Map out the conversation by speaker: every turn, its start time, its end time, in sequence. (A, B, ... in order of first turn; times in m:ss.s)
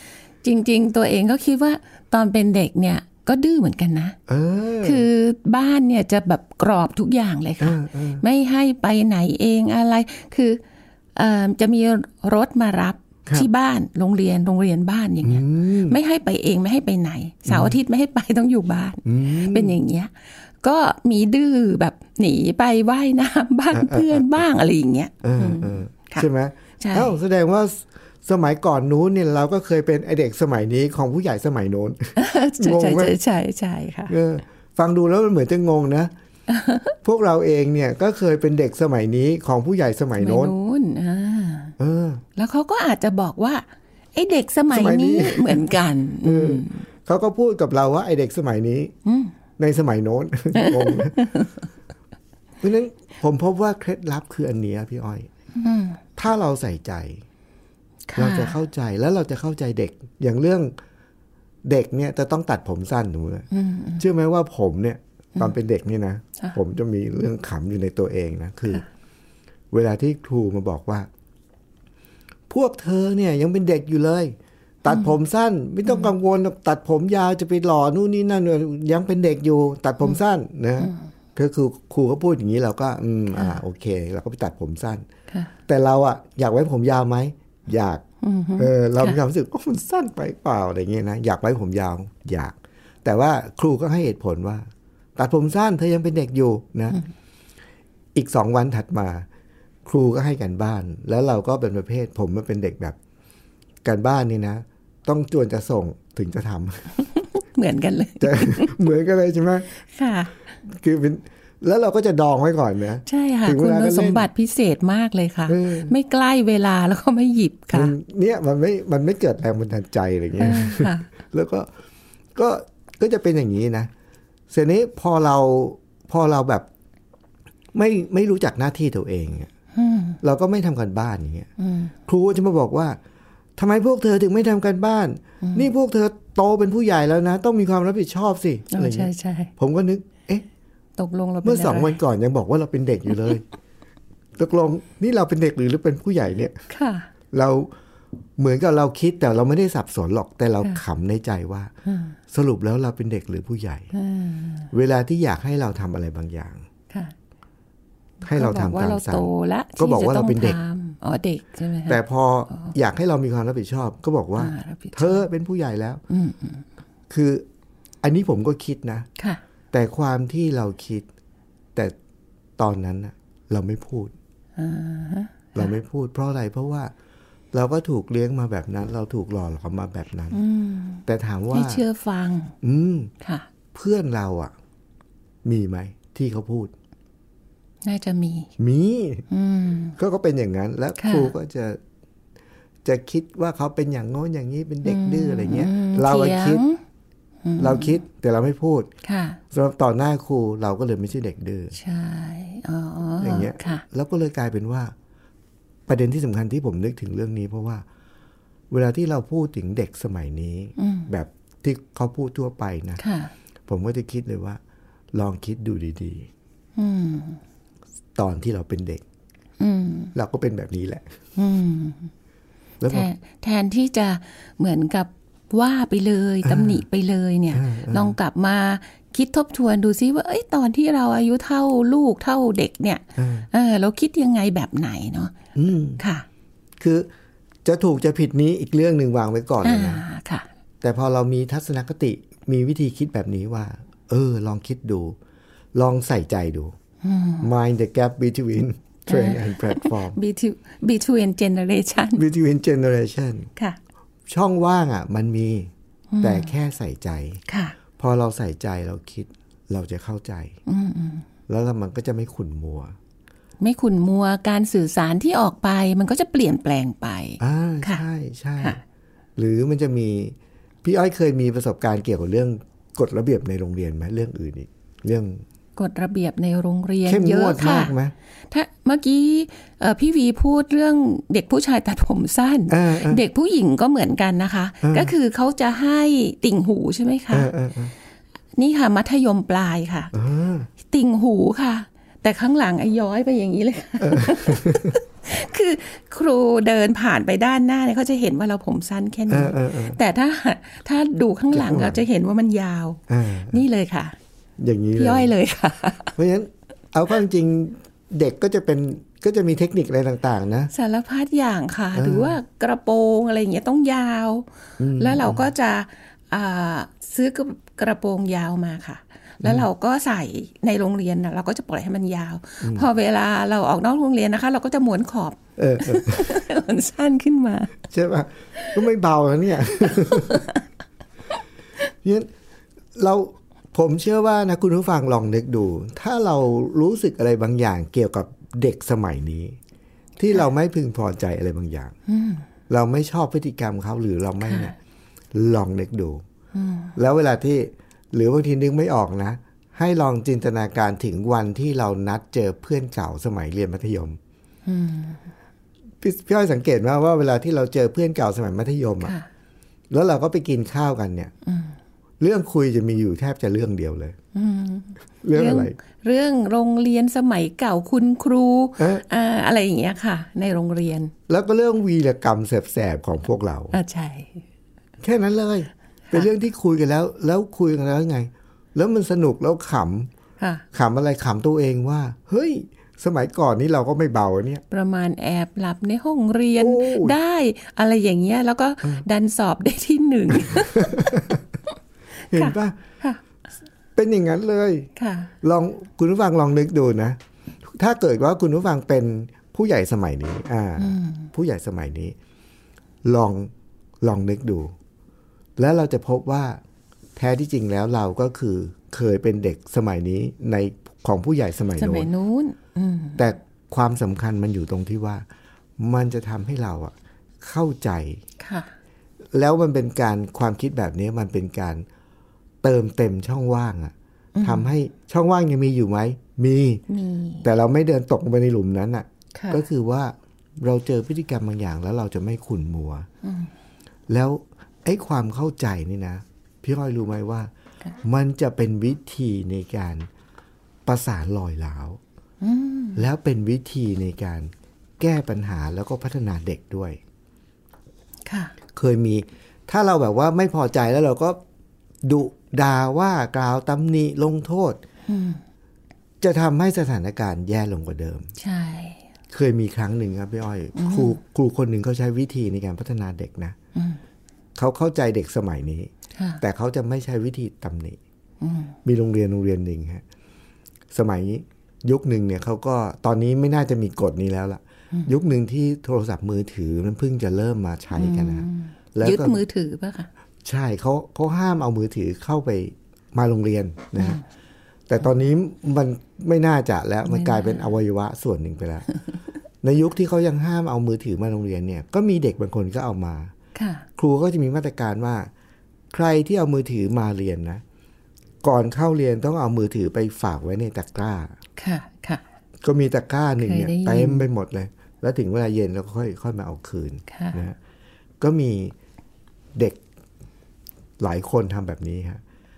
0:00.4-0:04.2 A
0:04.3-0:05.0 B
0:04.8-0:10.6 A
0:07.6-0:08.2 B
0:11.1-0:26.3 A
0:15.2-0:16.0 B
0:17.5-0:17.7 B
0:19.0-0:19.8 B
0:23.7-0:24.4 B
0:25.2-0:33.1 B
0:26.8-0:27.1 A
0:32.2-0:34.2 A
0:34.1-0:36.1 B
0:36.5-0:36.9 A
0:37.0-0:40.5 B
0:40.2-0:41.8 A
0:41.8-0:42.2 B
0:42.4-0:46.8 A
0:44.7-0:45.6 B
0:46.2-0:48.9 B
0:49.0-0:49.3 A
0:49.6-0:51.2 B
0:50.5-0:51.6 A
0:52.6-0:55.3 B
0:55.6-0:56.0 A
0:56.2-0:57.2 B
0:58.1-0:58.6 A
0:58.2-1:00.7 B
1:01.6-1:08.8 B
1:03.5-1:04.0 A
1:09.7-1:11.1 B
1:12.5-1:25.0 B
1:25.7-1:28.0 B
1:28.2-1:29.2 A
1:28.6-1:37.0 B
1:38.1-1:39.2 B
1:39.8-1:43.0 B
1:43.8-1:47.0 B
1:47.1-1:48.8 A
1:48.2-1:49.7 B
1:49.8-1:50.4 A
1:50.6-1:54.3 B
1:53.0-1:57.9 A
1:55.5-1:55.9 B
1:57.7-2:01.7 B
2:00.4-2:01.1 A
2:02.3-2:03.9 B
2:04.5-2:06.7 B
2:07.7-2:09.5 B
2:09.7-2:10.2 A
2:10.2-2:11.5 B
2:11.6-2:11.9 A
2:12.1-2:13.0 B
2:13.6-2:20.4 B
2:18.7-2:19.5 A
2:21.0-2:22.0 A
2:21.4-2:23.4 B
2:24.4-2:26.6 B
2:26.7-2:27.1 A
2:27.3-2:27.7 B
2:28.4-2:31.7 B
2:31.8-2:32.2 A
2:32.3-2:33.9 B
2:33.9-2:34.7 A
2:34.7-2:36.6 B
2:38.2-2:40.6 B
2:38.3-2:42.0 A
2:41.9-2:46.0 B
2:44.4-2:45.2 A
2:46.1-2:46.6 A
2:47.1-2:47.4 B
2:48.0-2:49.1 B
2:49.7-2:51.0 B
2:52.6-2:54.1 B
2:54.6-2:55.7 A
2:55.5-2:56.9 B
2:57.5-3:00.4 B
3:00.3-3:02.5 A
3:01.0-3:01.8 B
3:02.6-3:03.1 B
3:03.2-3:03.5 A
3:03.7-3:04.5 B
3:05.4-3:06.7 B
3:07.8-3:08.5 A
3:08.6-3:09.2 B
3:09.3-3:10.0 A
3:10.0-3:11.8 B
3:11.0-3:11.3 A
3:12.8-3:16.6 B
3:14.8-3:16.8 A
3:17.4-3:18.0 A
3:17.6-3:18.9 B
3:19.0-3:19.4 A
3:19.5-3:21.8 B
3:21.7-3:23.8 A
3:23.2-3:24.9 B
3:25.9-3:27.8 B
3:28.7-3:33.0 B
3:30.8-3:31.1 A
3:33.0-3:33.3 A
3:33.7-3:34.6 B
3:35.1-3:36.3 B
3:36.8-3:37.4 A
3:38.2-3:39.0 B
3:39.6-3:40.1 A
3:40.1-3:41.0 B
3:41.4-3:42.1 A
3:42.8-3:43.1 B
3:42.9-3:55.3 A
3:46.4-3:46.8 B
3:47.5-3:48.2 B
3:53.2-3:53.5 B
3:55.5-3:56.0 B
3:56.0-3:56.2 A
3:56.8-3:57.1 B
3:57.6-4:00.0 B
3:59.6-4:00.4 A
4:00.8-4:05.2 B
4:05.7-4:06.7 B
4:07.0-4:07.5 A
4:07.4-4:10.2 B
4:09.1-4:12.2 A
4:12.2-4:13.5 B
4:14.3-4:17.4 B
4:16.1-4:16.5 A
4:17.5-4:17.7 A
4:18.0-4:20.6 B
4:20.6-4:21.2 A
4:21.5-4:23.0 B
4:23.6-4:28.0 A
4:27.4-4:28.8 B
4:29.4-4:35.4 B
4:35.8-4:37.9 A
4:37.0-4:38.1 B
4:38.5-4:47.5 A
4:42.7-4:43.2 B
4:44.8-4:45.1 B
4:47.3-4:47.9 B
4:48.5-4:50.1 A
4:50.1-4:50.7 B
4:50.8-5:04.2 A
4:54.0-4:55.0 B
4:59.3-5:00.0 B
5:01.5-5:02.0 B
5:03.1-5:03.6 B
5:04.6-5:05.3 B
5:05.0-5:06.2 A
5:06.2-5:10.7 B
5:10.7-5:27.8 A
5:11.9-5:12.4 B
5:14.8-5:15.5 B
5:22.6-5:22.9 B
5:25.6-5:26.4 B
5:27.9-5:30.4 B
5:29.9-5:30.6 A
5:32.0-5:32.3 B
5:32.9-5:39.6 B
5:40.2-5:41.9 B
5:42.1-5:42.4 A
5:42.7-5:44.7 B
5:44.4-5:44.7 A
5:45.3-5:46.2 B
5:46.5-5:46.9 A
5:47.0-5:54.2 B
5:54.6-5:55.2 A
5:56.0-5:59.1 B
5:59.0-5:59.3 A
5:59.9-6:01.3 B
6:01.4-6:01.7 A
6:02.2-6:04.2 B
6:04.3-6:11.1 A
6:05.2-6:05.8 B
6:08.8-6:09.0 B
6:11.3-6:13.8 B
6:13.7-6:14.4 A
6:15.0-6:20.1 B
6:20.4-6:20.6 A
6:20.7-6:24.6 B
6:24.7-6:31.4 A
6:26.6-6:27.2 B
6:30.4-6:31.4 B
6:32.3-6:32.8 B
6:32.3-6:33.2 A
6:34.0-6:34.9 B
6:35.0-6:35.3 A
6:35.4-6:42.2 B
6:40.8-6:41.3 A
6:43.0-6:44.7 B
6:45.6-6:46.6 B
6:47.2-6:52.1 B
6:51.8-6:53.2 A
6:53.2-6:55.2 B
6:55.8-6:58.2 B
6:58.4-6:58.7 A
6:59.3-7:01.8 B
7:02.6-7:06.8 B
7:04.3-7:04.7 A
7:06.9-7:07.4 A
7:07.4-7:13.1 B
7:09.3-7:09.6 A
7:13.2-7:13.5 A
7:14.1-7:17.5 B
7:18.0-7:20.1 B
7:20.8-7:22.0 B
7:22.4-7:23.0 A
7:23.0-7:27.0 B
7:28.2-7:28.5 A
7:28.7-7:31.4 B
7:32.0-7:34.8 B
7:35.1-7:35.4 A
7:36.2-7:38.3 B
7:38.4-7:39.0 A
7:39.3-7:43.6 B
7:40.7-7:41.2 A
7:43.7-7:44.0 A
7:44.6-7:48.0 B
7:46.1-7:46.4 A
7:48.4-7:48.7 A
7:48.8-7:50.0 B
7:50.9-7:59.4 B
7:57.9-8:00.1 A
8:00.4-8:04.2 B
8:04.9-8:08.9 B
8:07.1-8:07.7 A
8:09.6-8:13.3 B
8:13.5-8:13.8 A
8:14.0-8:15.3 B
8:15.9-8:17.6 B
8:18.4-8:21.3 B
8:21.6-8:22.2 A
8:22.6-8:27.6 B
8:23.4-8:24.3 A
8:27.1-8:27.4 A
8:28.2-8:28.7 B
8:29.5-8:29.8 B
8:31.0-8:32.2 B